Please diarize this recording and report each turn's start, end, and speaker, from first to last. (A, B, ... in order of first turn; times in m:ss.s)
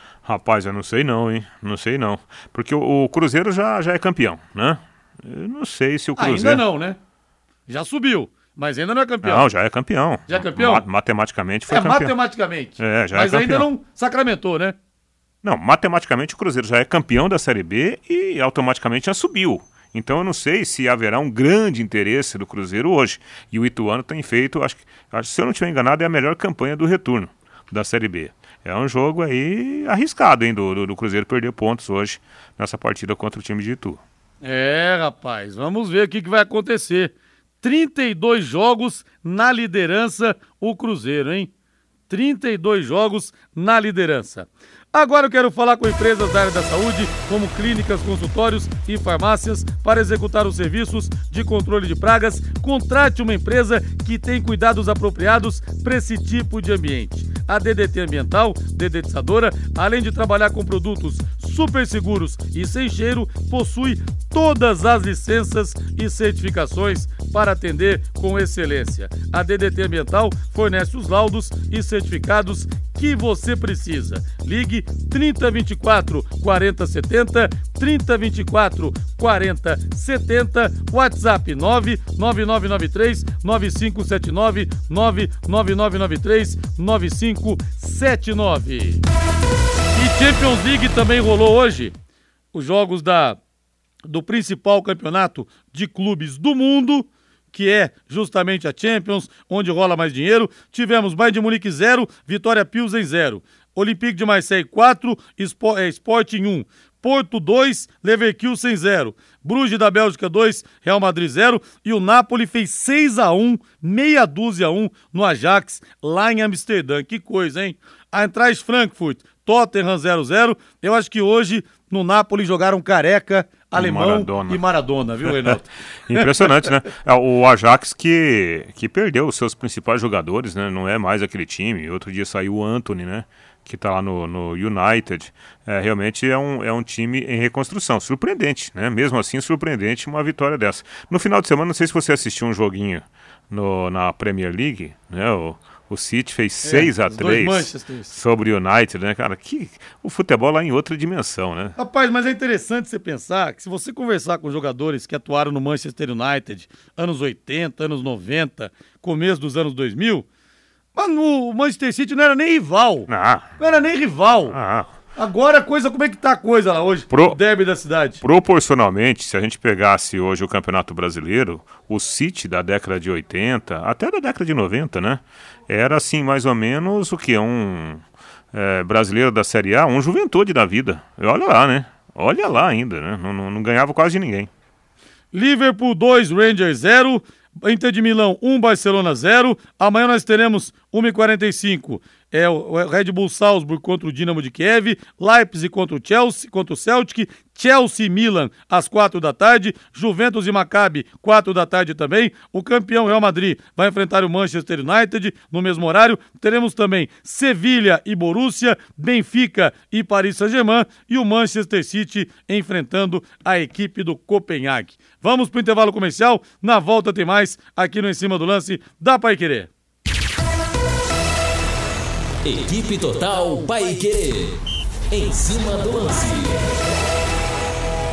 0:00.2-0:06.6 A
0:06.2-0:07.0 B
0:07.7-0:09.5 B
0:09.2-0:12.1 A
0:10.3-0:10.8 B
0:11.7-0:14.7 B
0:12.8-0:13.7 A
0:15.4-0:34.0 A
0:34.4-0:41.5 B
0:42.1-1:29.0 B
1:29.9-1:31.9 B
1:32.5-1:33.4 B
1:34.0-2:06.3 B
2:03.7-2:04.6 A
2:05.2-2:05.5 A
2:06.1-2:31.8 A
2:26.6-2:28.1 B
2:31.8-2:40.2 B
2:41.0-2:44.6 B
2:43.1-2:43.5 A
2:44.5-2:44.9 A
2:45.2-2:48.2 B
2:47.1-2:47.4 A
2:48.2-3:04.5 A
3:05.3-3:39.7 B
3:42.4-3:44.6 C
3:45.1-3:46.8 C